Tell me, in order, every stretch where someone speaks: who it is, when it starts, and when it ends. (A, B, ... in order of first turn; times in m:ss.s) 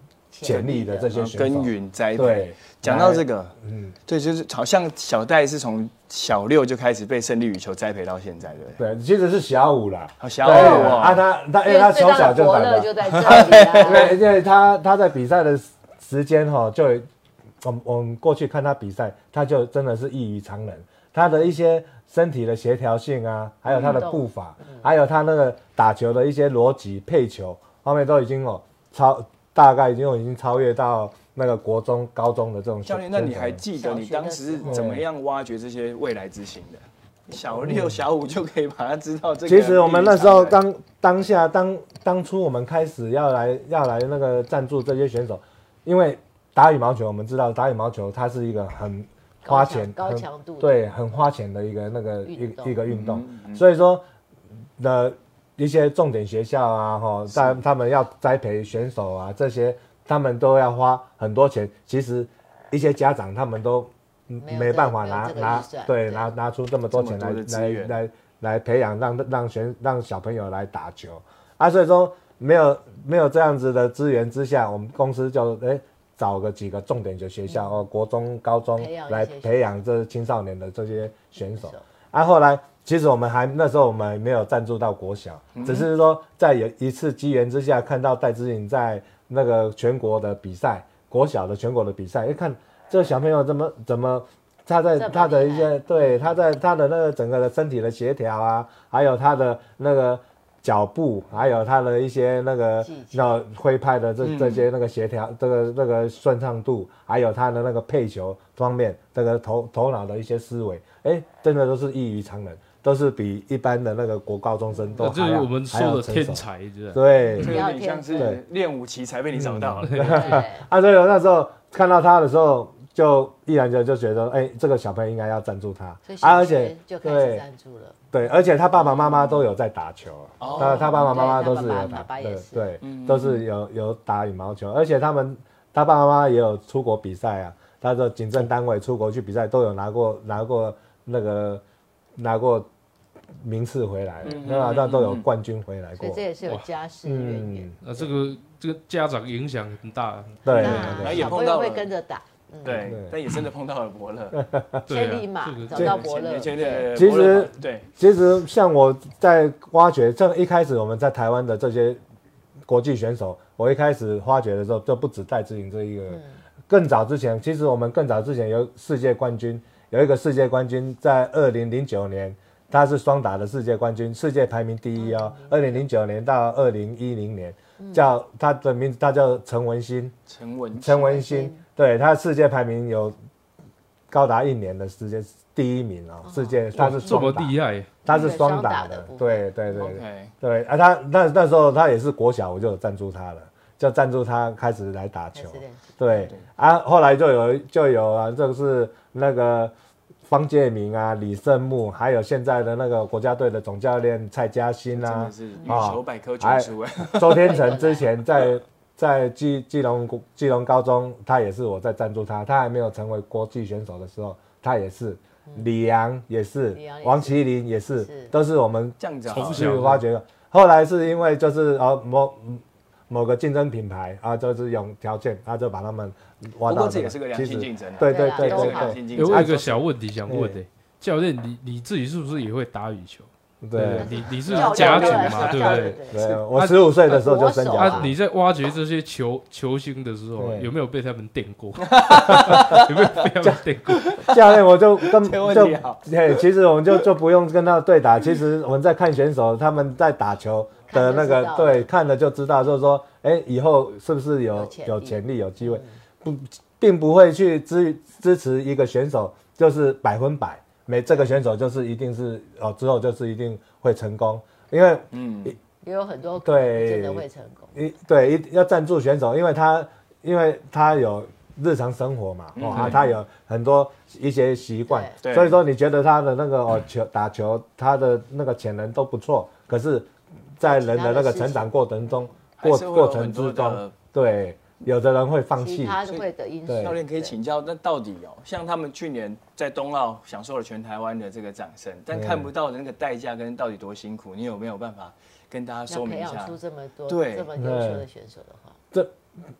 0:00.3-0:01.1 A
0:00.4-0:03.9 B
0:00.4-0:03.5 C
0:04.1-0:08.8 C
0:08.8-0:17.1 B
0:10.2-0:11.2 C
0:10.4-0:11.1 A
0:11.6-0:14.2 A
0:13.1-0:14.1 C
0:17.6-0:33.6 B
0:23.6-0:24.0 C
0:23.9-0:24.9 A
0:32.8-0:40.6 C
0:33.7-0:34.8 A
0:34.6-0:35.0 B
0:37.6-0:38.0 B
0:39.4-0:54.0 B
0:49.4-0:50.8 A
0:52.2-0:52.8 A
0:52.9-0:53.6 C
0:54.8-1:57.6 B
1:04.4-1:06.3 A
1:06.9-1:08.0 C
1:17.5-1:17.8 A
1:18.7-1:19.8 A
1:21.4-1:21.8 A
1:25.5-1:25.9 C
1:35.0-1:36.4 A
1:42.8-1:43.3 A
1:44.2-1:44.6 C
1:54.7-1:55.1 A
1:55.0-1:57.0 D
1:57.2-1:58.3 A
1:57.4-2:00.1 C
1:59.3-2:07.4 B
1:59.8-2:00.2 D
2:00.0-2:00.6 A
2:06.0-2:08.0 A
2:08.1-2:21.6 B
2:10.4-2:11.2 C
2:10.4-2:12.7 A
2:12.8-2:13.4 C
2:22.2-2:22.7 B
2:23.4-2:26.2 B
2:24.2-2:25.2 C
2:26.0-2:28.1 A
2:27.0-2:27.8 B
2:27.8-2:31.0 D
2:30.4-2:31.3 B
2:30.5-2:32.9 A
2:30.5-2:31.9 C
2:32.6-2:34.4 C
2:32.8-2:33.2 B
2:34.4-2:34.8 B
2:34.9-2:36.0 D
2:34.9-2:37.1 A
2:35.7-2:36.0 B
2:35.8-2:37.9 C
2:36.9-2:42.0 B
2:42.7-3:00.1 B
2:46.1-2:46.4 A
2:55.0-2:55.8 A
2:57.8-2:58.0 A
3:00.3-3:01.2 C
3:00.8-3:03.1 B
3:00.9-3:01.6 A
3:04.1-3:19.7 B
3:06.2-3:06.6 A
3:06.7-3:07.9 D
3:08.1-3:08.4 C
3:08.1-3:09.5 A
3:09.7-3:10.3 C
3:15.3-3:16.3 A
3:20.3-3:49.6 B
3:24.9-3:27.6 C
3:25.6-3:25.9 A
3:27.3-3:28.1 A
3:36.7-3:37.4 A
3:38.0-3:38.3 A
3:39.0-3:39.8 C
3:39.3-3:40.0 D
3:46.6-3:49.8 C
3:48.0-3:49.0 A
3:49.1-3:56.0 D
3:50.2-3:50.6 B
3:53.6-3:54.2 B
3:54.0-3:56.2 A
3:54.4-3:56.4 C
3:56.0-3:58.1 B
3:56.5-4:04.2 D
3:57.1-3:58.1 A
4:00.4-4:00.7 B
4:01.8-4:03.3 C
4:03.9-4:06.4 C
4:04.2-4:25.6 B
4:10.9-4:11.8 A
4:14.5-4:15.9 A
4:25.1-4:25.6 C
4:25.8-4:27.7 A
4:26.4-4:46.0 B
4:32.6-4:33.1 C
4:34.9-4:35.2 A
4:35.2-4:35.6 C
4:40.7-4:42.2 A
4:42.6-4:43.9 C
4:45.6-4:47.3 A
4:46.7-4:47.0 B
4:46.8-4:57.5 C
4:52.1-4:52.5 B
4:55.9-4:58.8 A
4:57.6-4:58.0 B